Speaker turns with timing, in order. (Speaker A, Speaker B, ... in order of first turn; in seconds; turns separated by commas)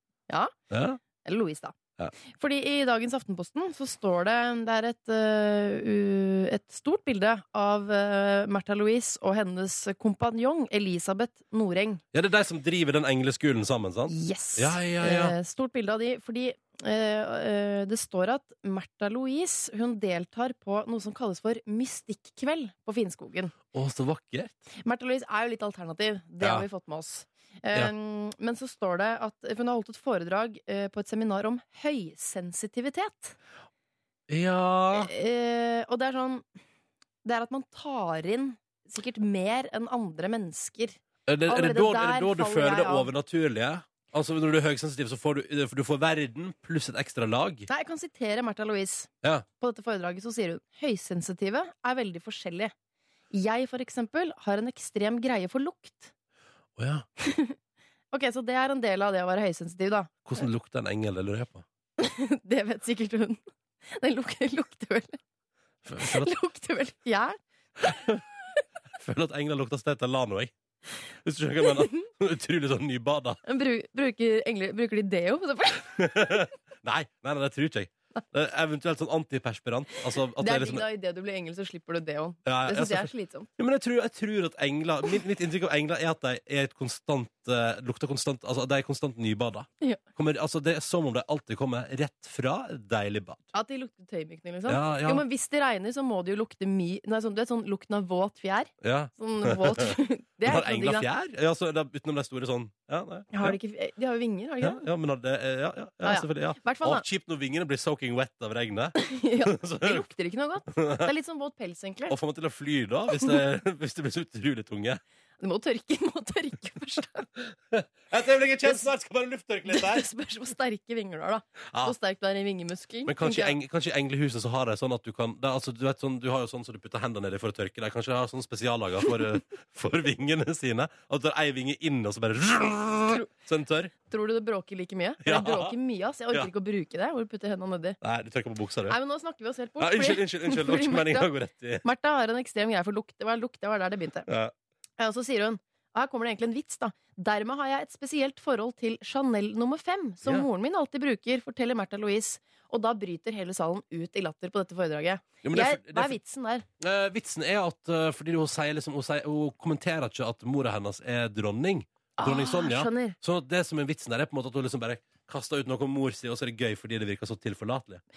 Speaker A: 0.7-1.0, Speaker B: 1.2-1.8, Speaker B: 2.3-12.0, Speaker A: 12.1-15.3, Speaker B: 14.1-23.5, Speaker A: 23.7-24.6, Speaker B: 24.8-33.4, Speaker A: 26.4-26.7, Speaker A: 34.3-35.1, Speaker B: 34.9-36.5, Speaker B: 37.2-43.1, Speaker A: 41.3-47.7, Speaker B: 47.7-49.1, Speaker B: 49.6-52.7, Speaker B: 53.3-56.1, Speaker A: 56.8-57.1, Speaker B: 57.2-57.6, Speaker B: 58.1-60.2, Speaker A: 60.3-61.6, Speaker B: 62.0-63.4, Speaker B: 63.9-65.2, Speaker A: 65.8-66.3, Speaker B: 66.0-68.6, Speaker A: 67.9-68.2, Speaker A: 69.0-70.5, Speaker A: 71.2-73.4, Speaker B: 71.7-72.0, Speaker B: 73.5-76.5, Speaker A: 76.0-80.8, Speaker B: 80.4-83.5, Speaker A: 82.5-93.5, Speaker B: 93.5-101.1, Speaker A: 94.7-95.2, Speaker A: 98.8-103.6, Speaker B: 103.3-104.9, Speaker A: 104.6-110.0, Speaker B: 106.0-107.0, Speaker B: 109.0-112.2, Speaker A: 110.7-111.1, Speaker A: 112.1-115.0, Speaker B: 115.4-117.3, Speaker A: 117.4-120.1, Speaker B: 119.7-123.6, Speaker A: 123.1-133.9, Speaker B: 134.1-138.0, Speaker A: 135.2-135.8, Speaker A: 138.0-139.0, Speaker B: 138.9-141.3, Speaker A: 139.8-141.8, Speaker B: 141.8-144.3, Speaker A: 144.3-144.5, Speaker B: 145.0-156.7, Speaker A: 155.4-156.2, Speaker A: 156.8-168.0, Speaker B: 162.2-163.2